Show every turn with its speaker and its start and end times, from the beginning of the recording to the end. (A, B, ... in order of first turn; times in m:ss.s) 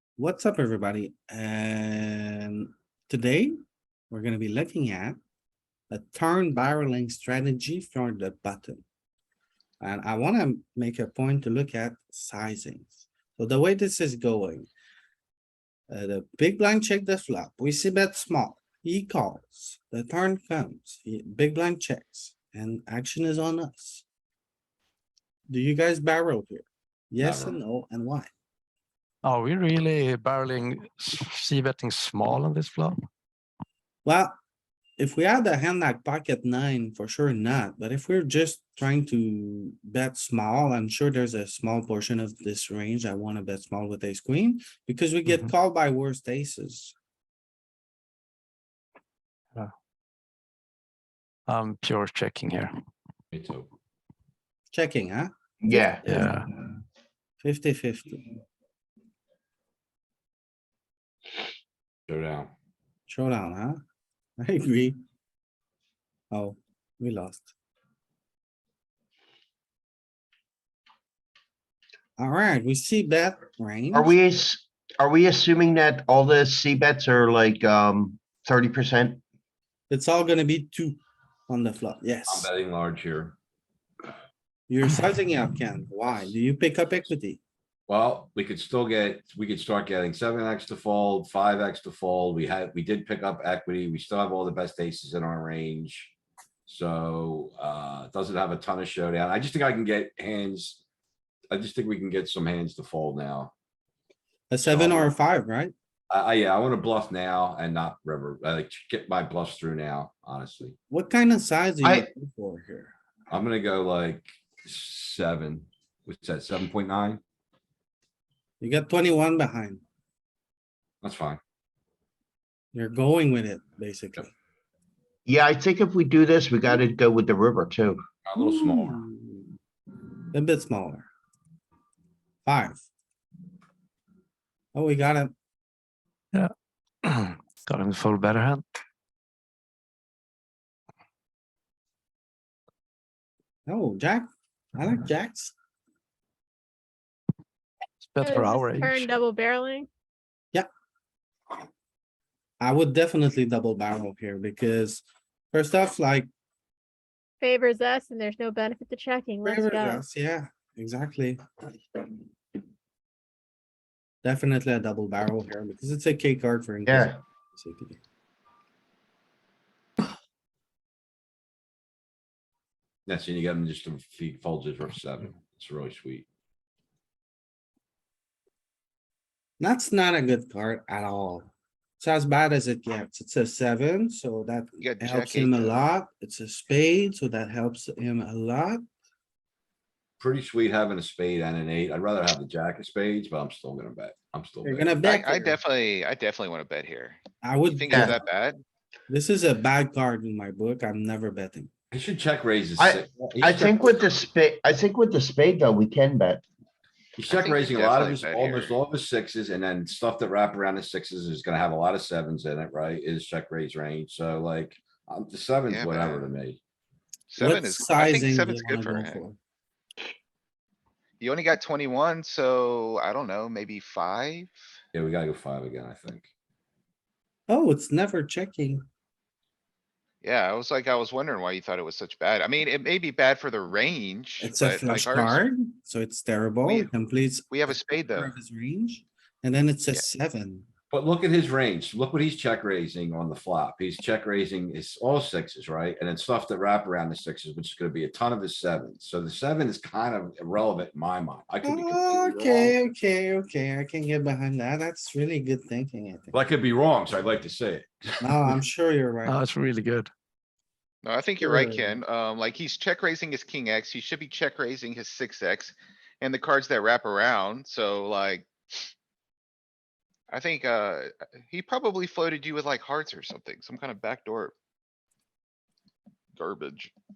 0:00.2-0:03.5 A
0:04.1-0:05.2 A
0:05.9-0:08.8 A
0:09.8-0:14.7 A
0:15.9-0:24.0 A
0:25.5-0:28.3 A
0:27.2-0:27.6 B
0:29.2-0:33.0 C
0:34.0-0:34.3 A
0:35.0-0:46.9 A
0:45.3-0:45.5 C
0:51.5-0:52.7 C
0:53.3-0:53.7 B
0:54.7-0:56.4 A
0:55.6-0:56.0 D
0:56.1-0:56.5 C
0:57.4-0:58.3 A
1:02.1-1:02.5 B
1:03.1-1:03.8 A
1:04.4-1:05.0 A
1:06.3-1:07.5 A
1:12.2-1:14.2 A
1:13.9-1:19.2 D
1:19.9-1:22.5 A
1:22.3-1:23.4 B
1:24.7-1:27.4 A
1:27.9-1:36.1 B
1:36.6-1:40.8 B
1:41.5-1:43.5 B
1:44.5-1:45.7 A
1:44.6-1:45.1 B
1:46.1-1:50.8 B
1:50.9-1:52.9 A
1:51.8-1:52.1 D
1:53.3-1:57.2 B
1:58.6-1:59.8 A
2:01.0-2:01.4 B
2:02.7-2:04.3 A
2:05.2-2:08.0 D
2:08.2-2:09.0 B
2:08.4-2:09.5 A
2:10.3-2:11.1 A
2:12.4-2:12.8 A
2:14.7-2:15.3 A
2:17.0-2:18.6 C
2:23.7-2:25.5 A
2:28.0-2:29.1 C
2:28.2-2:29.9 E
2:32.6-2:36.3 A
2:37.4-2:40.0 E
2:39.4-2:41.4 A
2:44.2-2:48.0 A
2:46.8-2:47.2 D
2:53.0-2:56.2 B
2:59.6-3:08.8 A
3:04.8-3:05.8 F
3:10.2-3:14.9 B
3:14.6-3:15.6 A
3:15.0-3:18.6 F
3:17.4-3:18.2 A
3:19.1-3:21.7 A
3:21.9-3:24.2 B
3:22.8-3:26.4 D
3:27.2-3:36.6 B
3:27.3-3:28.7 F
3:35.7-3:36.2 F
3:37.3-3:39.2 F
3:37.4-3:39.4 A
3:41.2-3:44.5 F
3:44.9-3:46.3 B
3:47.5-3:48.8 A
3:50.2-3:55.4 F
3:54.4-4:00.7 A
3:56.6-3:56.9 F
3:57.5-3:58.3 F
4:00.9-4:12.8 B
4:11.6-4:16.3 A
4:16.3-4:18.4 B
4:18.2-4:19.4 A
4:19.2-4:20.1 C
4:21.0-4:28.5 F
4:21.4-4:22.0 A
4:30.3-4:34.5 F
4:36.4-4:36.9 F